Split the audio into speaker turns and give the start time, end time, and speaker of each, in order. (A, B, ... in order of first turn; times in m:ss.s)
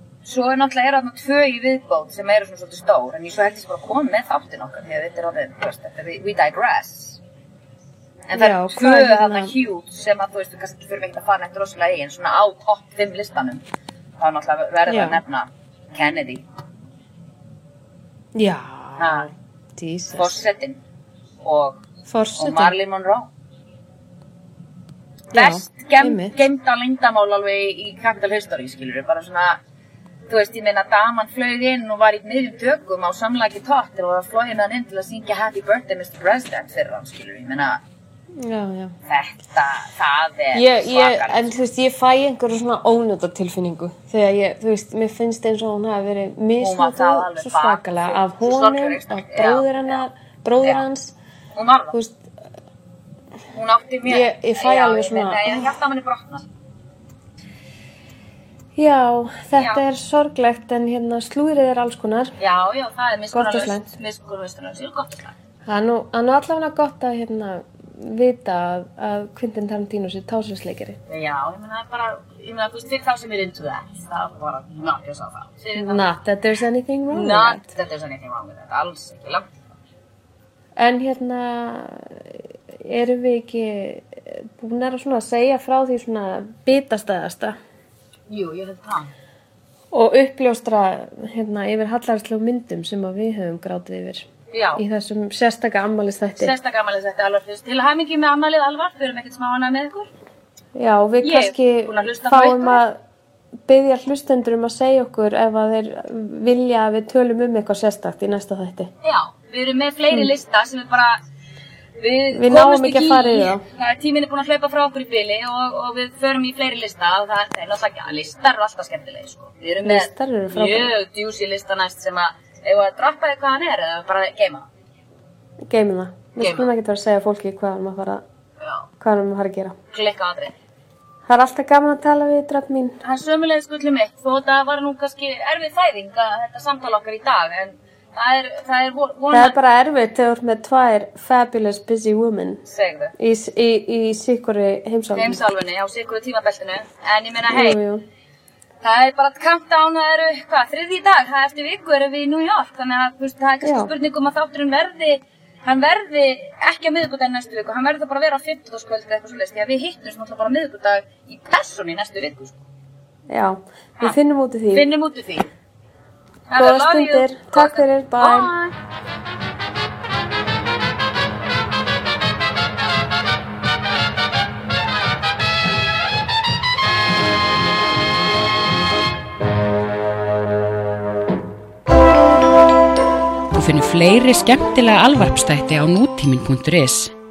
0:00.2-0:07.2 A
0:08.3-0:13.6 A
0:08.3-0:09.5 B
0:14.2-0:16.4 A
0:14.9-0:15.2 B
0:18.4-0:20.4 B
0:19.0-0:19.3 A
0:20.1-0:20.8 A
0:21.4-0:21.8 A
0:22.1-0:22.8 B
0:22.4-0:23.3 A
0:25.3-0:29.6 A
0:25.3-0:26.4 B
0:30.3-0:37.8 A
0:38.4-0:38.9 B
0:39.1-0:41.6 A
0:40.5-0:51.1 B
0:46.6-0:50.0 A
0:50.6-0:50.9 A
0:51.6-0:52.0 A
0:51.9-0:52.3 B
0:53.5-0:56.5 A
0:54.1-0:55.7 B
0:58.8-1:02.3 B
0:59.6-0:59.8 A
1:02.4-1:05.3 A
1:03.3-1:03.9 B
1:05.7-1:11.0 B
1:11.1-1:16.1 A
1:15.8-1:17.6 B
1:17.1-1:19.5 A
1:20.8-1:27.6 B
1:28.3-1:29.1 A
1:29.9-1:36.5 B
1:34.5-1:34.8 A
1:36.4-1:40.1 A
1:40.8-1:43.0 B
1:41.2-1:42.8 A
1:43.7-1:48.9 B
1:49.0-1:51.2 A
1:52.0-2:04.7 A
1:52.3-1:53.6 B
1:59.8-2:00.9 B
2:05.7-2:08.2 B
2:06.4-2:06.7 A
2:08.6-2:08.9 A
2:09.0-2:09.8 B
2:09.9-2:10.6 A
2:11.3-2:13.0 B
2:13.0-2:19.6 A
2:19.3-2:22.6 B
2:22.7-2:23.1 A
2:23.2-2:25.4 B
2:25.1-2:27.8 A
2:27.5-2:28.0 B
2:28.8-2:42.6 A
2:33.6-2:33.9 B
2:43.3-2:44.9 B
2:44.7-2:45.5 A
2:46.5-2:48.7 A
2:46.6-2:48.5 B
3:03.5-3:07.1 C